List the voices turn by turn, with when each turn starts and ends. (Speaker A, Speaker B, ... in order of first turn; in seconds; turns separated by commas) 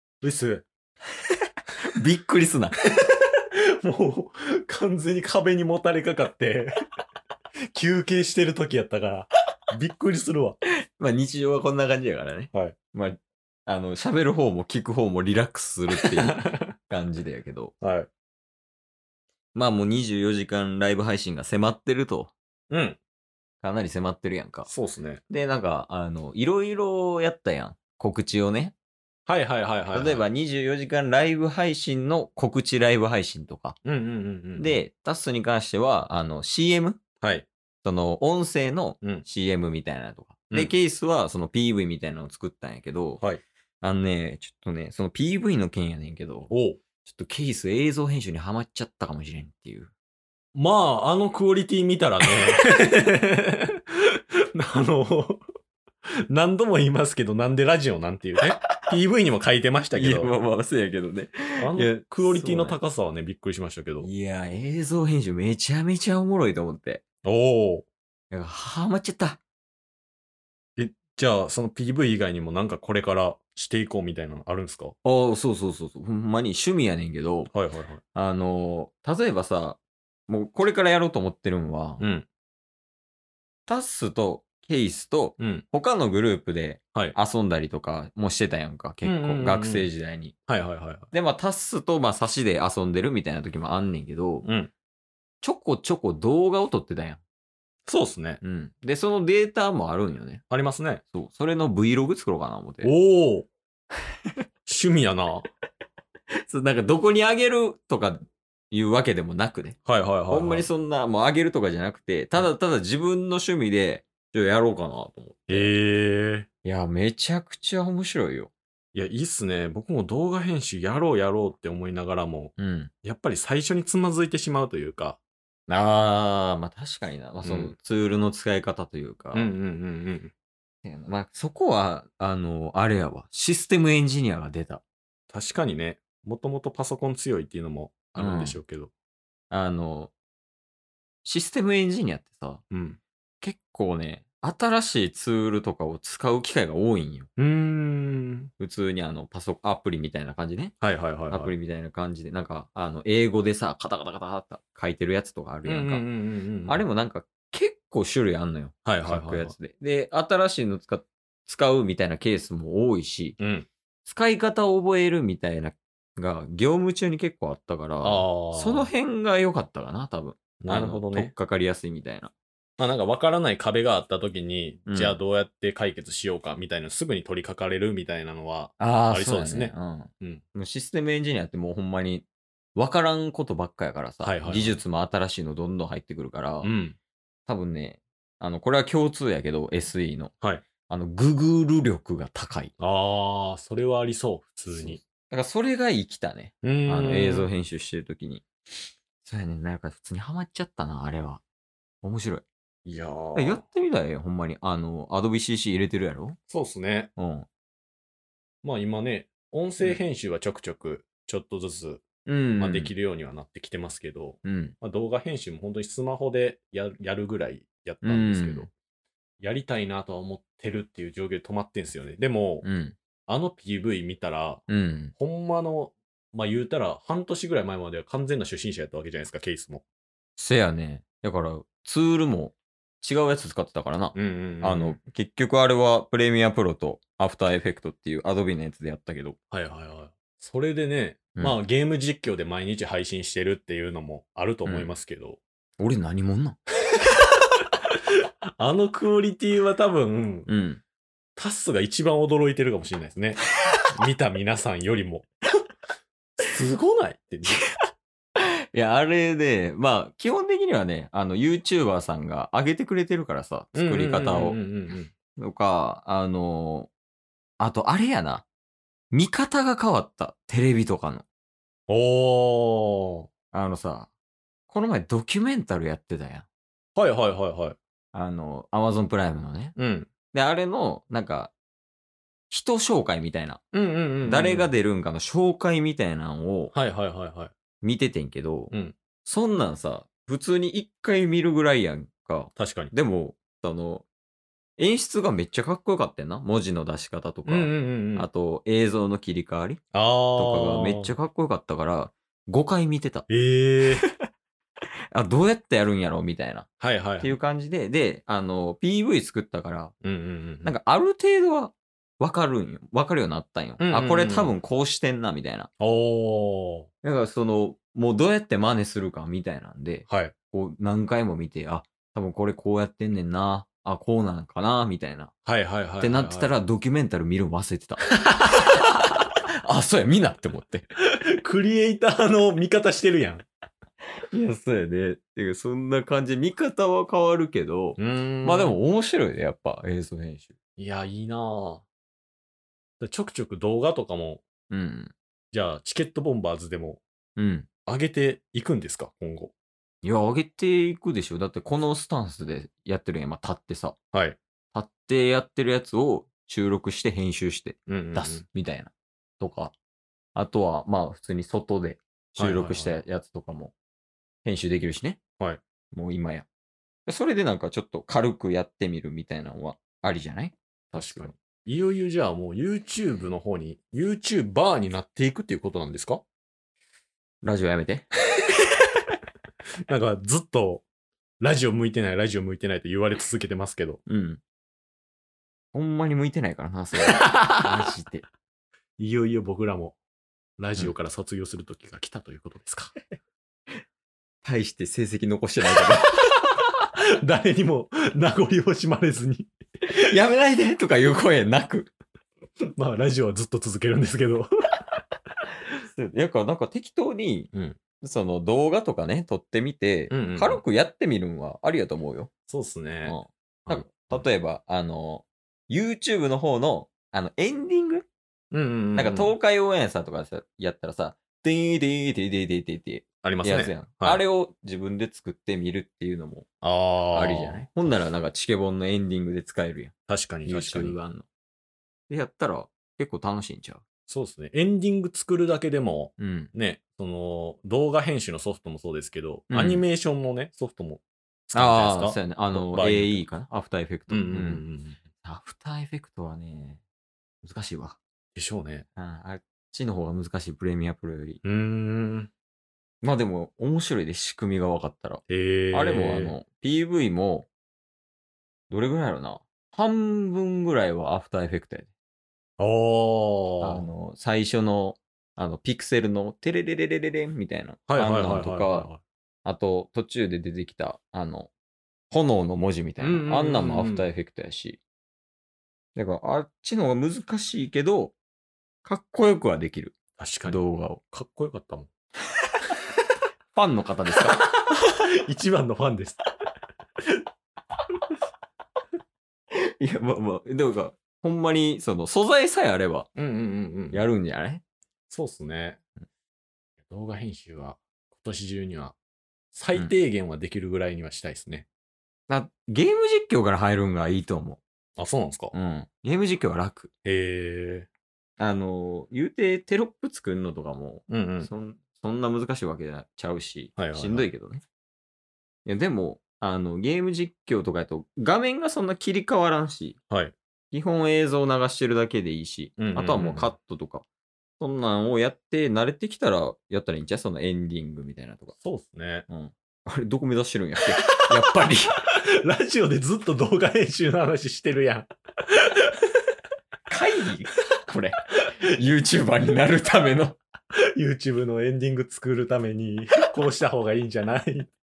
Speaker A: 0.2-0.6, Speaker B: 1.8-2.7, Speaker A: 3.8-6.8, Speaker A: 7.7-10.6, Speaker B: 11.0-17.7, Speaker A: 16.0-16.7, Speaker A: 17.8-18.1, Speaker B: 19.5-22.3, Speaker A: 22.7-23.0, Speaker B: 23.6-24.7, Speaker A: 24.7-25.2, Speaker B: 25.3-28.7, Speaker A: 29.3-30.2, Speaker B: 29.9-33.8, Speaker A: 33.8-34.8, Speaker B: 34.6-37.0, Speaker A: 37.2-37.5, Speaker B: 37.8-43.2, Speaker B: 43.8-46.5, Speaker A: 46.5-46.8, Speaker B: 47.0-49.9, Speaker A: 50.5-55.4, Speaker A: 56.3-60.3, Speaker B: 59.9-62.8, Speaker A: 61.6-64.1, Speaker B: 64.0-67.0, Speaker A: 67.2-67.8, Speaker B: 68.3-69.4, Speaker A: 70.8-74.9, Speaker B: 75.0-77.5, Speaker A: 77.5-78.0, Speaker B: 78.1-82.0, Speaker A: 82.0-82.2, Speaker B: 83.7-90.3, Speaker A: 85.4-85.6, Speaker A: 89.0-89.8, Speaker A: 90.5-91.1, Speaker B: 91.1-94.5, Speaker A: 94.4-94.7, Speaker B: 95.4-97.2, Speaker A: 97.9-98.4, Speaker B: 98.4-100.4, Speaker A: 100.5-101.0, Speaker B: 101.1-102.9, Speaker A: 102.8-103.5, Speaker A: 104.7-105.5, Speaker B: 106.4-109.8, Speaker A: 109.8-110.7, Speaker B: 110.3-115.7, Speaker A: 115.5-116.5, Speaker B: 116.6-118.5, Speaker A: 118.9-122.5, Speaker B: 122.6-122.9, Speaker A: 123.0-125.2, Speaker B: 125.7-129.5, Speaker A: 127.4-127.7, Speaker A: 129.3-130.3, Speaker B: 130.8-134.8, Speaker A: 135.3-138.9, Speaker B: 138.2-138.6, Speaker B: 139.5-140.1, Speaker B: 141.2-142.6, Speaker A: 142.7-143.0, Speaker B: 143.4-147.3, Speaker A: 147.4-148.5, Speaker B: 148.6-150.7, Speaker A: 150.8-151.5, Speaker B: 151.3-156.1, Speaker A: 155.6-156.8, Speaker B: 156.7-163.4, Speaker A: 158.8-159.5, Speaker A: 163.4-163.7, Speaker B: 164.0-172.3, Speaker A: 168.0-168.9, Speaker A: 170.6-171.3, Speaker A: 172.8-180.4, Speaker B: 174.9-175.2, Speaker B: 178.8-186.7, Speaker A: 184.2-184.8, Speaker A: 186.6-187.0, Speaker B: 187.5-190.3, Speaker B: 190.9-192.7, Speaker A: 192.8-195.0, Speaker B: 194.8-198.4, Speaker A: 196.6-197.5, Speaker B: 199.2-201.4, Speaker B: 202.0-202.4, Speaker A: 202.8-203.6, Speaker B: 203.3-206.4, Speaker A: 206.5-207.1, Speaker B: 207.2-207.5, Speaker A: 208.6-212.0, Speaker B: 212.2-212.9, Speaker A: 212.6-218.7, Speaker B: 214.4-214.7, Speaker B: 218.0-218.7, Speaker A: 219.4-222.7, Speaker B: 222.6-222.9, Speaker A: 223.3-224.6, Speaker B: 224.7-225.1, Speaker A: 225.2-229.8, Speaker B: 230.4-239.4, Speaker A: 234.1-235.0, Speaker A: 239.5-245.4, Speaker B: 244.6-244.9, Speaker B: 245.8-246.6, Speaker A: 248.6-250.5, Speaker B: 250.5-250.8, Speaker A: 251.4-253.4, Speaker A: 253.9-255.3, Speaker A: 256.4-257.6, Speaker B: 258.7-264.6, Speaker A: 263.7-265.1, Speaker B: 265.4-266.9, Speaker B: 267.6-268.4, Speaker B: 269.1-271.2, Speaker A: 271.9-273.3, Speaker B: 273.5-274.1, Speaker B: 274.7-276.4, Speaker A: 276.9-277.8, Speaker B: 278.1-279.7, Speaker A: 279.8-280.1, Speaker B: 280.3-281.5, Speaker B: 282.5-283.6, Speaker A: 283.7-284.7, Speaker B: 284.2-286.7, Speaker A: 286.7-287.5, Speaker B: 287.8-288.7, Speaker A: 288.7-288.9, Speaker B: 289.2-294.1, Speaker A: 292.6-292.9, Speaker B: 294.8-299.8, Speaker A: 297.4-298.3, Speaker A: 299.9-301.1, Speaker B: 300.4-303.2, Speaker A: 303.3-304.0, Speaker B: 305.1-306.7, Speaker A: 306.8-307.4, Speaker B: 307.2-309.9, Speaker A: 310.0-310.7, Speaker B: 310.6-315.7, Speaker A: 313.8-314.6, Speaker A: 315.8-316.9, Speaker B: 317.0-325.3, Speaker A: 320.1-320.3, Speaker A: 325.4-326.5, Speaker B: 326.0-330.9, Speaker A: 328.1-328.6, Speaker A: 331.4-333.4, Speaker B: 334.3-340.5, Speaker A: 338.0-338.8, Speaker A: 340.8-341.8, Speaker A: 343.0-344.4, Speaker B: 344.7-345.1, Speaker A: 345.5-347.0, Speaker B: 347.4-347.7, Speaker A: 347.9-349.5, Speaker B: 350.0-353.9, Speaker A: 354.1-354.4, Speaker B: 354.7-359.7, Speaker A: 357.9-358.4, Speaker B: 360.3-363.7, Speaker A: 362.4-363.0, Speaker B: 364.4-365.2, Speaker B: 365.9-366.4, Speaker B: 367.1-371.3, Speaker A: 370.9-376.2, Speaker B: 377.4-378.5, Speaker A: 379.9-380.8, Speaker A: 381.4-384.0, Speaker B: 384.1-384.4, Speaker B: 385.7-388.2, Speaker A: 387.1-387.7, Speaker A: 389.0-390.0, Speaker A: 390.6-392.9, Speaker B: 394.4-396.2, Speaker A: 397.2-399.5, Speaker B: 399.9-401.9, Speaker A: 402.8-404.5, Speaker B: 405.9-407.5, Speaker A: 407.5-407.8, Speaker B: 408.0-412.3, Speaker A: 410.1-410.6, Speaker A: 412.5-414.2, Speaker B: 413.0-418.1, Speaker A: 418.5-419.3, Speaker B: 418.9-426.5, Speaker A: 423.2-424.2, Speaker A: 426.6-427.7, Speaker B: 427.1-429.9, Speaker A: 430.1-431.0, Speaker B: 430.4-431.2, Speaker B: 432.1-433.8, Speaker A: 434.1-443.2, Speaker B: 436.2-436.5, Speaker B: 439.5-439.8, Speaker B: 441.5-444.6, Speaker A: 444.1-445.0, Speaker B: 445.2-446.8, Speaker B: 447.4-448.0, Speaker A: 448.4-448.8, Speaker B: 448.9-451.4, Speaker A: 451.4-452.3, Speaker B: 453.0-457.5, Speaker A: 455.3-456.4, Speaker B: 458.7-461.9, Speaker A: 462.6-463.9, Speaker B: 463.6-468.9, Speaker A: 467.9-469.0, Speaker B: 469.4-471.5, Speaker B: 472.1-474.8, Speaker A: 473.0-474.1, Speaker B: 475.9-478.1, Speaker B: 478.8-481.0, Speaker A: 480.2-481.9, Speaker B: 483.5-484.5, Speaker A: 484.4-486.2, Speaker B: 489.5-493.1, Speaker A: 493.1-494.0, Speaker B: 493.9-494.6, Speaker A: 495.1-495.8, Speaker A: 496.9-498.9, Speaker A: 499.5-501.6, Speaker B: 502.3-504.6, Speaker A: 505.0-505.5, Speaker B: 505.5-506.9, Speaker A: 507.0-507.9, Speaker B: 508.4-514.6, Speaker A: 511.1-511.5, Speaker A: 513.8-514.3, Speaker B: 515.6-520.0, Speaker B: 520.7-524.0, Speaker A: 522.8-523.5, Speaker B: 524.6-528.5, Speaker A: 528.6-529.2, Speaker B: 529.3-531.9, Speaker A: 532.4-535.9, Speaker B: 536.9-540.4, Speaker A: 540.9-544.7